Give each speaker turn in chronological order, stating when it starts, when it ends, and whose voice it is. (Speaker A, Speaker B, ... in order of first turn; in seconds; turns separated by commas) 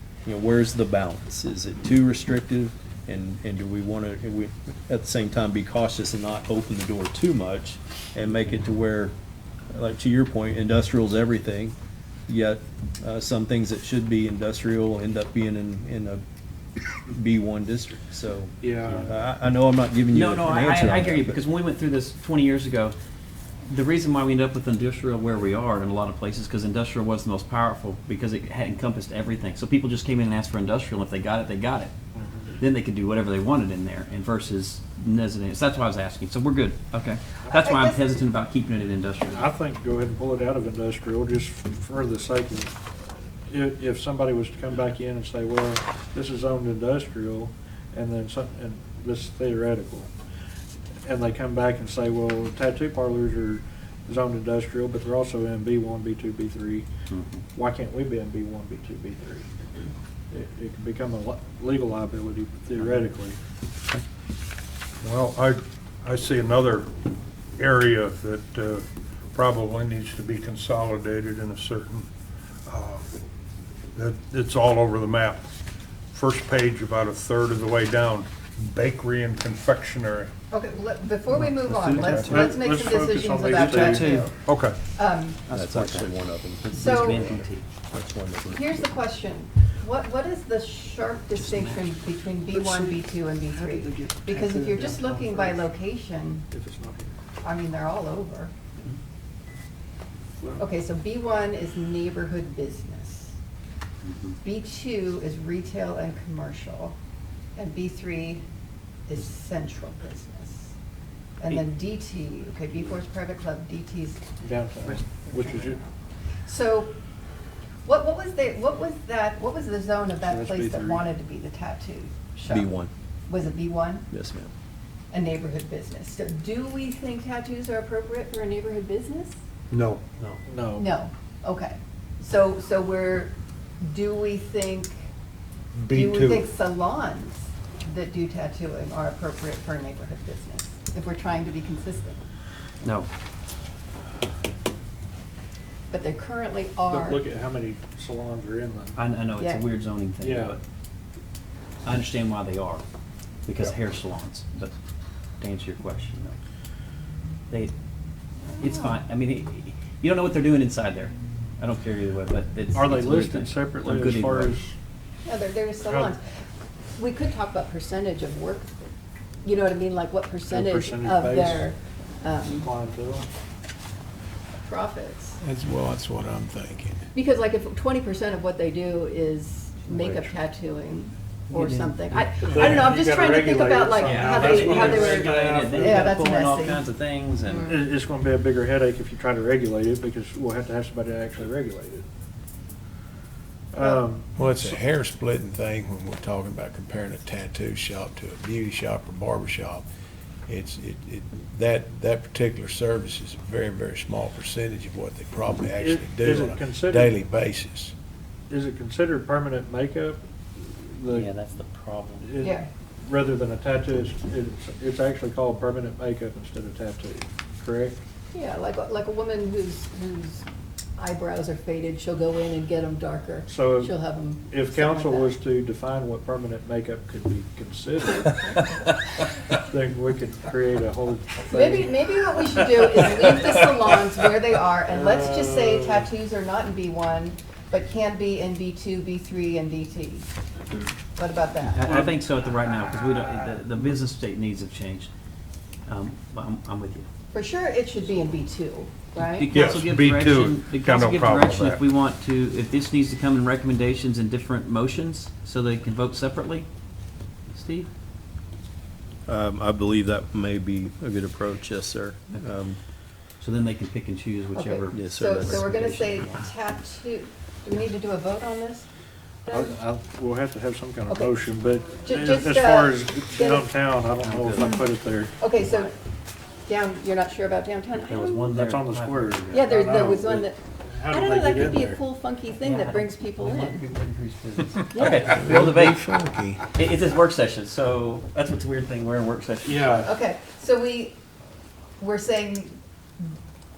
Speaker A: 0.2-9.1, Speaker A: 9.7-11.8, Speaker A: 12.3-16.2, Speaker A: 17.1-21.4, Speaker B: 18.6-19.1, Speaker C: 18.9-19.1, Speaker C: 20.1-22.9, Speaker C: 23.7-31.9, Speaker B: 32.1-32.6, Speaker C: 32.6-39.5, Speaker D: 37.6-38.2, Speaker B: 39.3-42.7, Speaker B: 43.5-50.1, Speaker B: 51.0-56.9, Speaker C: 57.1-57.4, Speaker B: 57.5-59.6, Speaker B: 60.3-63.4, Speaker E: 65.0-66.9, Speaker E: 67.6-72.1, Speaker E: 72.7-73.1, Speaker E: 74.0-75.5, Speaker E: 76.1-80.3, Speaker D: 80.5-84.4, Speaker C: 81.4-82.6, Speaker E: 81.9-82.4, Speaker B: 82.3-84.3, Speaker C: 83.5-84.3, Speaker E: 84.4-84.8, Speaker D: 84.9-85.4, Speaker C: 85.5-87.7, Speaker A: 85.5-88.8, Speaker D: 86.8-87.2, Speaker D: 88.5-96.5, Speaker C: 91.4-91.9, Speaker B: 92.5-93.0, Speaker B: 93.5-95.7, Speaker B: 96.5-97.2, Speaker D: 97.4-98.5, Speaker B: 100.4-100.7, Speaker D: 100.6-103.3, Speaker C: 104.0-104.4, Speaker D: 104.4-107.0, Speaker D: 107.6-108.4, Speaker D: 109.1-110.7, Speaker D: 111.4-114.3, Speaker B: 114.4-115.8, Speaker D: 114.9-115.7, Speaker D: 116.5-116.9, Speaker D: 117.8-122.7, Speaker B: 120.2-121.0, Speaker A: 122.5-122.9, Speaker D: 123.3-124.1, Speaker A: 124.1-124.5, Speaker D: 125.1-129.4, Speaker E: 129.7-130.0, Speaker B: 130.5-130.9, Speaker D: 130.8-135.0, Speaker E: 135.8-136.5, Speaker D: 135.9-142.2, Speaker C: 142.8-143.1, Speaker D: 145.9-147.2, Speaker B: 146.9-149.0, Speaker C: 149.0-150.6, Speaker D: 149.4-149.6, Speaker B: 150.2-150.6, Speaker C: 151.8-152.8, Speaker C: 153.4-154.8, Speaker C: 155.4-156.4, Speaker D: 158.5-159.0, Speaker C: 158.6-164.6, Speaker B: 162.7-164.8, Speaker D: 165.2-166.2, Speaker B: 165.8-166.2, Speaker D: 167.0-168.8, Speaker D: 169.4-172.7, Speaker B: 170.5-171.7, Speaker B: 172.5-173.3, Speaker D: 174.6-175.4, Speaker F: 175.4-177.0, Speaker D: 177.2-186.8, Speaker B: 180.0-180.3, Speaker C: 181.5-182.8, Speaker B: 182.4-186.1, Speaker C: 184.0-187.8, Speaker D: 187.4-187.8, Speaker B: 187.7-192.1, Speaker B: 193.7-194.7, Speaker F: 194.3-199.9, Speaker F: 200.5-207.9, Speaker B: 205.8-207.2, Speaker B: 208.5-211.3, Speaker C: 211.1-212.3, Speaker B: 212.2-218.0, Speaker D: 212.4-212.7, Speaker D: 218.3-220.4, Speaker D: 221.0-225.3, Speaker B: 223.5-228.3, Speaker D: 228.2-228.9, Speaker B: 229.6-232.0, Speaker D: 231.5-240.3, Speaker B: 234.9-236.1, Speaker D: 241.2-241.9, Speaker C: 241.7-245.1, Speaker C: 245.9-247.1, Speaker D: 247.3-249.5, Speaker C: 249.2-256.7, Speaker E: 249.5-251.8, Speaker C: 257.5-257.9, Speaker A: 259.3-262.8, Speaker C: 263.4-266.5, Speaker D: 264.5-268.9, Speaker A: 264.9-266.0, Speaker D: 269.5-269.8, Speaker B: 269.5-275.4, Speaker D: 271.1-271.4, Speaker D: 271.9-273.7, Speaker C: 274.2-274.8, Speaker D: 274.6-274.9, Speaker D: 275.4-275.9, Speaker C: 275.6-275.9, Speaker D: 276.7-278.5, Speaker C: 278.0-279.7, Speaker B: 278.5-282.0, Speaker D: 279.5-283.9, Speaker C: 282.6-286.1, Speaker F: 284.9-286.7, Speaker C: 286.7-290.1, Speaker B: 289.6-290.1, Speaker D: 290.0-291.2, Speaker D: 292.0-293.3